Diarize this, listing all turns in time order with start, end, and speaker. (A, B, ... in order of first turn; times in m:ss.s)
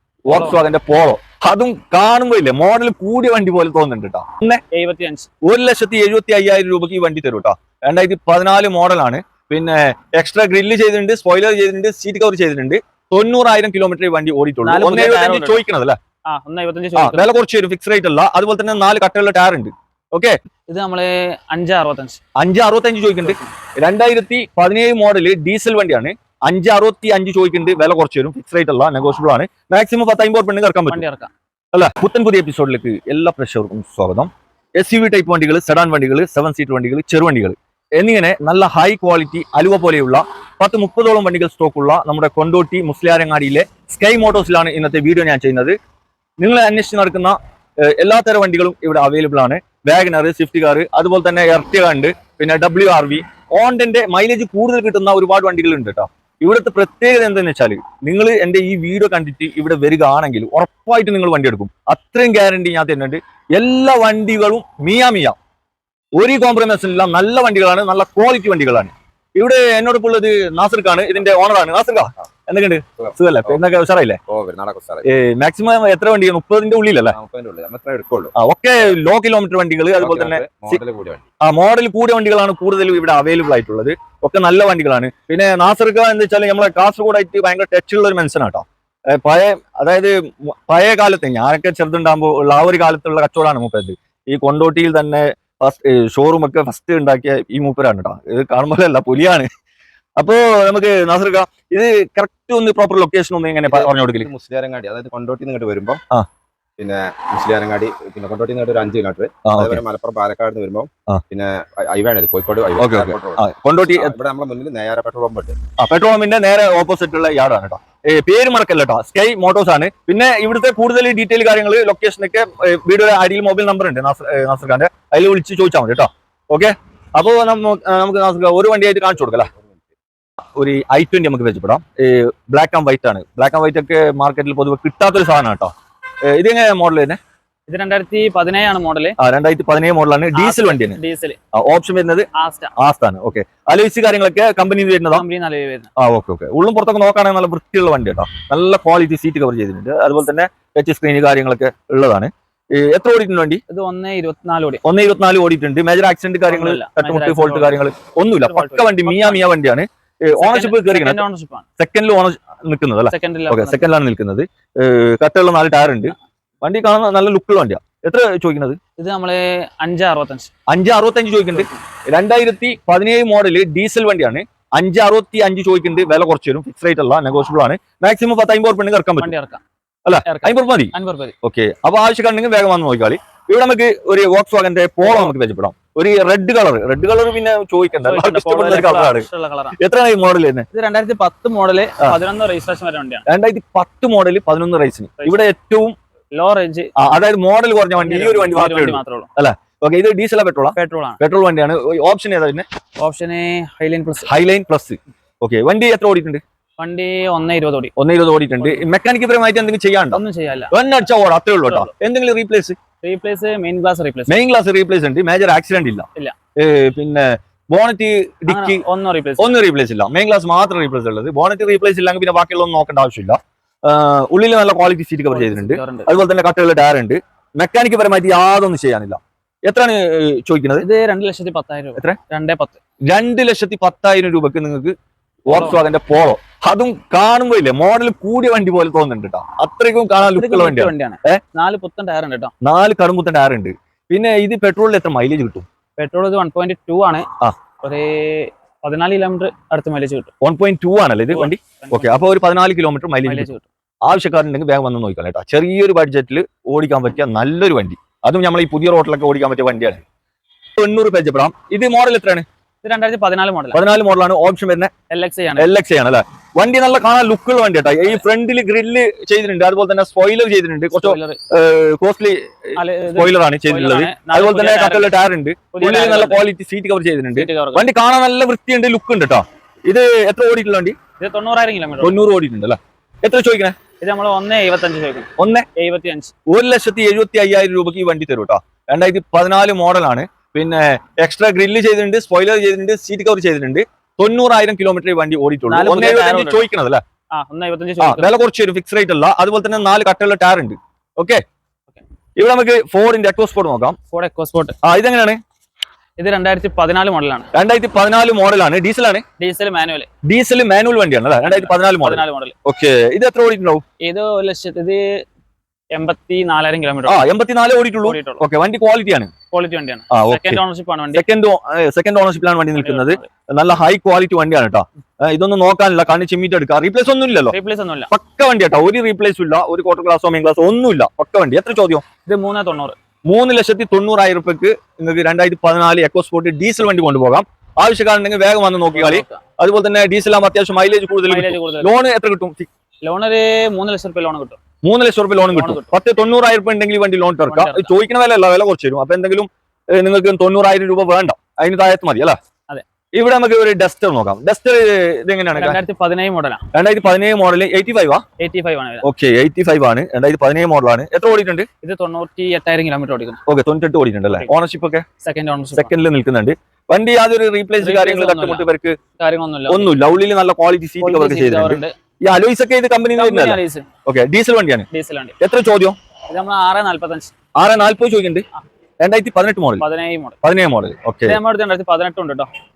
0:00.2-0:04.6 A
0:00.3-0:00.6 B
0:04.7-0:05.3 B
0:05.4-0:16.0 A
0:14.6-0:15.6 B
0:16.2-0:17.2 B
0:17.0-0:20.4 A
0:20.7-0:22.2 B
0:22.4-0:31.0 A
0:30.9-0:31.3 B
0:31.7-0:45.8 A
0:46.4-1:05.4 A
1:06.2-1:14.2 A
1:13.0-1:13.6 C
1:14.3-1:15.0 C
1:15.0-1:17.2 A
1:17.1-1:18.3 C
1:18.3-1:20.8 A
1:20.0-1:21.2 C
1:21.4-1:39.5 A
1:40.2-1:44.3 A
1:43.6-1:46.0 C
1:46.8-1:55.6 C
1:49.4-1:49.8 A
1:52.8-1:54.2 A
1:55.8-2:09.5 A
2:10.6-2:15.7 A
2:16.3-2:17.2 A
2:17.7-2:19.2 B
2:19.2-2:21.0 A
2:20.3-2:21.4 B
2:21.5-2:25.2 A
2:22.3-2:22.7 B
2:25.1-2:25.9 B
2:26.0-2:33.6 A
2:33.7-2:34.8 B
2:34.8-2:41.2 A
2:36.5-2:37.8 B
2:38.4-2:39.5 B
2:40.4-2:41.6 B
2:41.8-2:48.8 A
2:43.1-2:43.8 B
2:49.0-2:50.5 B
2:50.7-2:59.3 A
2:59.2-2:59.6 B
3:00.0-3:10.7 A
3:00.2-3:01.3 B
3:05.0-3:05.3 B
3:08.0-3:09.8 B
3:10.7-3:13.2 B
3:13.2-3:16.0 A
3:16.3-3:16.9 B
3:17.0-3:22.6 A
3:18.0-3:19.3 B
3:20.8-3:21.2 B
3:23.0-3:24.3 B
3:24.2-3:26.4 A
3:26.8-3:27.9 B
3:28.0-3:32.8 A
3:28.6-3:28.8 B
3:30.1-3:30.7 B
3:33.0-3:34.3 B
3:34.3-3:38.8 A
3:38.5-3:39.5 B
3:39.4-3:50.8 A
3:45.3-3:46.1 B
3:50.8-3:52.8 B
3:53.0-3:54.9 A
3:55.4-4:01.4 A
3:55.5-3:55.8 B
4:00.2-4:02.5 B
4:02.6-4:05.6 A
4:06.0-4:07.3 B
4:07.8-4:10.3 B
4:10.4-4:13.5 A
4:11.3-4:12.2 B
4:13.2-4:13.6 B
4:14.0-4:20.0 A
4:20.8-4:22.4 A
4:22.8-4:23.8 B
4:23.7-4:24.9 A
4:25.1-4:25.7 B
4:25.6-4:41.0 A
4:30.9-4:31.4 B
4:32.8-4:35.1 B
4:35.7-4:36.4 B
4:37.4-4:37.8 B
4:41.2-4:42.2 B
4:42.0-4:43.8 A
4:44.0-4:46.3 B
4:45.4-4:45.6 A
4:46.5-4:57.0 A
4:55.7-4:56.7 B
4:57.3-4:58.3 B
4:58.0-5:01.4 A
5:02.4-5:04.0 A
5:04.1-5:04.8 B
5:04.8-5:05.4 A
5:06.2-5:07.5 B
5:07.5-5:09.2 A
5:09.4-5:10.1 B
5:10.2-5:13.8 A
5:11.4-5:12.5 B
5:14.0-5:15.2 B
5:15.9-5:17.2 B
5:17.0-5:19.3 A
5:18.0-5:18.4 B
5:19.5-5:21.2 B
5:20.1-5:20.6 A
5:21.1-5:27.5 A
5:22.8-5:23.3 B
5:27.5-5:28.1 B
5:28.1-5:32.0 A
5:32.2-5:33.0 B
5:33.3-5:42.7 A
5:38.9-5:39.4 B
5:41.1-5:42.0 B
5:43.0-5:44.6 B
5:44.8-5:52.4 A
5:45.5-5:45.9 B
5:47.5-5:47.9 B
5:53.1-5:55.8 A
5:55.6-5:56.6 B
5:56.7-5:58.2 A
5:58.4-5:59.0 B
5:59.0-6:01.7 A
6:01.8-6:03.4 B
6:03.4-6:05.0 A
6:05.2-6:05.9 B
6:05.7-6:09.0 A
6:07.8-6:10.0 B
6:09.7-6:14.9 A
6:11.0-6:11.9 B
6:13.2-6:13.9 B
6:14.9-6:15.4 B
6:15.4-6:16.0 A
6:16.3-6:17.3 B
6:17.6-6:18.4 A
6:19.0-6:19.8 A
6:19.8-6:20.4 B
6:20.4-6:21.4 A
6:21.3-6:22.5 B